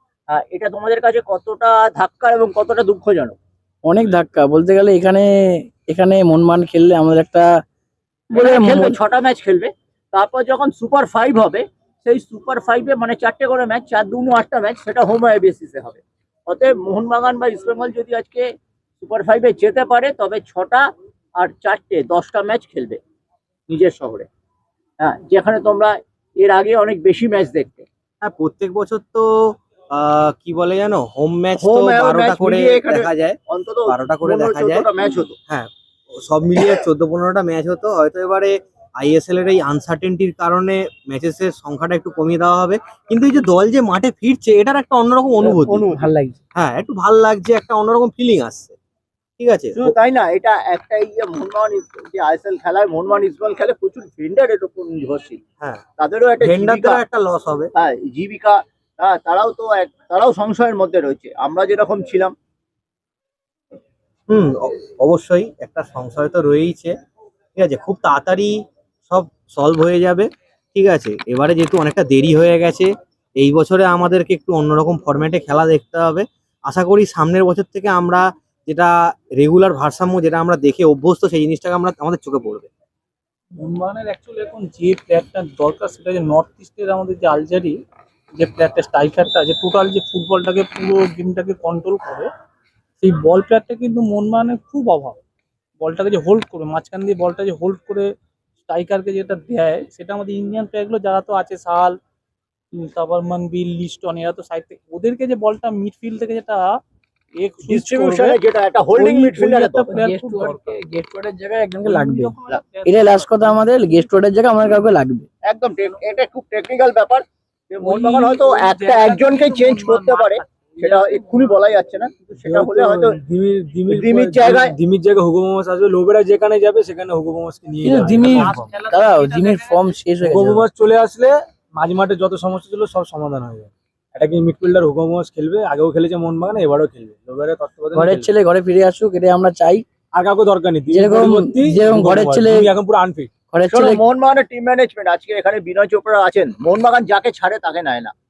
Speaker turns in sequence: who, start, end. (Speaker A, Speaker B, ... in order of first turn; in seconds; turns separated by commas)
Speaker A: 0.3-3.4, Speaker B: 3.9-7.5, Speaker A: 8.3-18.4, Speaker B: 8.4-9.0, Speaker A: 19.0-20.9, Speaker A: 21.4-23.0, Speaker A: 23.7-24.3, Speaker A: 25.0-27.9, Speaker C: 28.2-34.9, Speaker A: 31.6-35.4, Speaker C: 35.5-45.9, Speaker A: 45.4-46.1, Speaker B: 45.9-46.3, Speaker C: 46.5-48.8, Speaker C: 49.4-49.9, Speaker A: 49.8-55.4, Speaker A: 56.0-57.0, Speaker C: 56.4-57.7, Speaker A: 57.8-62.3, Speaker C: 64.3-66.9, Speaker C: 67.5-68.5, Speaker C: 69.1-82.7, Speaker D: 83.6-87.8, Speaker D: 88.4-92.3, Speaker D: 93.0-95.2, Speaker D: 95.8-98.1, Speaker D: 98.7-102.0, Speaker D: 102.8-106.8, Speaker D: 107.4-108.4, Speaker A: 107.7-109.9, Speaker D: 108.9-110.9, Speaker B: 110.0-112.3, Speaker D: 111.8-114.1, Speaker B: 112.8-115.3, Speaker A: 115.5-123.2, Speaker D: 117.8-121.6, Speaker E: 122.4-128.8, Speaker A: 123.9-124.8, Speaker B: 127.8-128.4, Speaker D: 128.0-130.0, Speaker B: 128.9-130.6, Speaker E: 130.2-138.3, Speaker B: 137.9-139.8, Speaker E: 140.1-143.3, Speaker B: 140.9-142.7, Speaker B: 143.5-144.0, Speaker A: 143.7-148.1